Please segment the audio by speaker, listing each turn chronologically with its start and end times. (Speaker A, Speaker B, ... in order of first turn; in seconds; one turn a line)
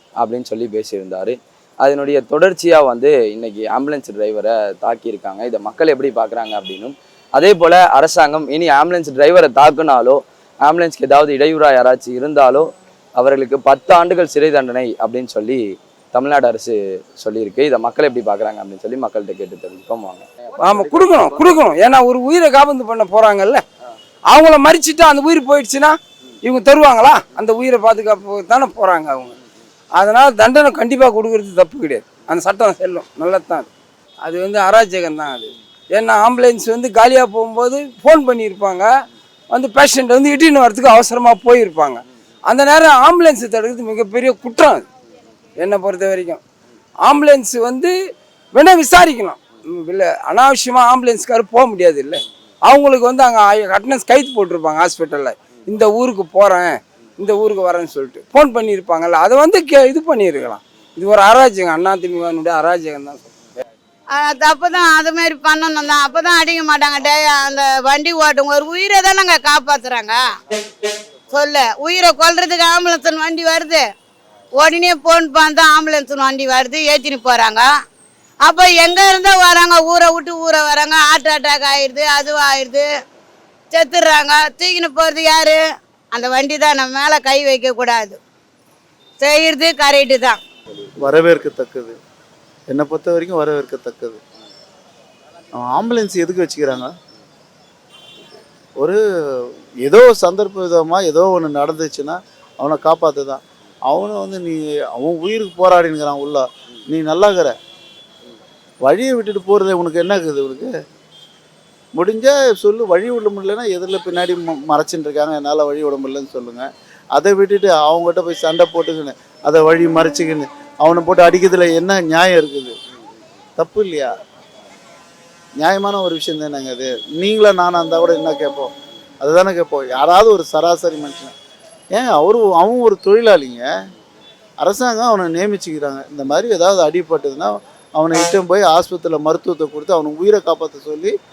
Speaker A: 0.2-12.7
Speaker A: 13.2-15.6
Speaker A: 16.1-20.2
Speaker B: 20.6-23.6
Speaker A: 20.9-21.4
Speaker B: 24.3-29.3
Speaker B: 29.9-33.7
Speaker B: 34.2-38.9
Speaker B: 39.5-44.8
Speaker B: 45.6-46.4
Speaker B: 47.0-47.9
Speaker B: 48.5-63.2
Speaker C: 64.2-70.2
Speaker C: 71.3-73.8
Speaker C: 74.6-77.7
Speaker C: 78.5-82.8
Speaker C: 83.7-85.6
Speaker C: 86.1-88.2
Speaker C: 89.2-90.4
Speaker D: 91.0-91.9
Speaker D: 92.7-94.2
Speaker D: 95.5-96.9
Speaker D: 98.8-107.5
Speaker D: 108.8-110.7
Speaker D: 112.0-122.7
Speaker D: 123.6-124.1
Speaker D: 125.6-128.7
Speaker D: 129.2-131.3
Speaker D: 131.9-133.7
Speaker D: 134.6-141.1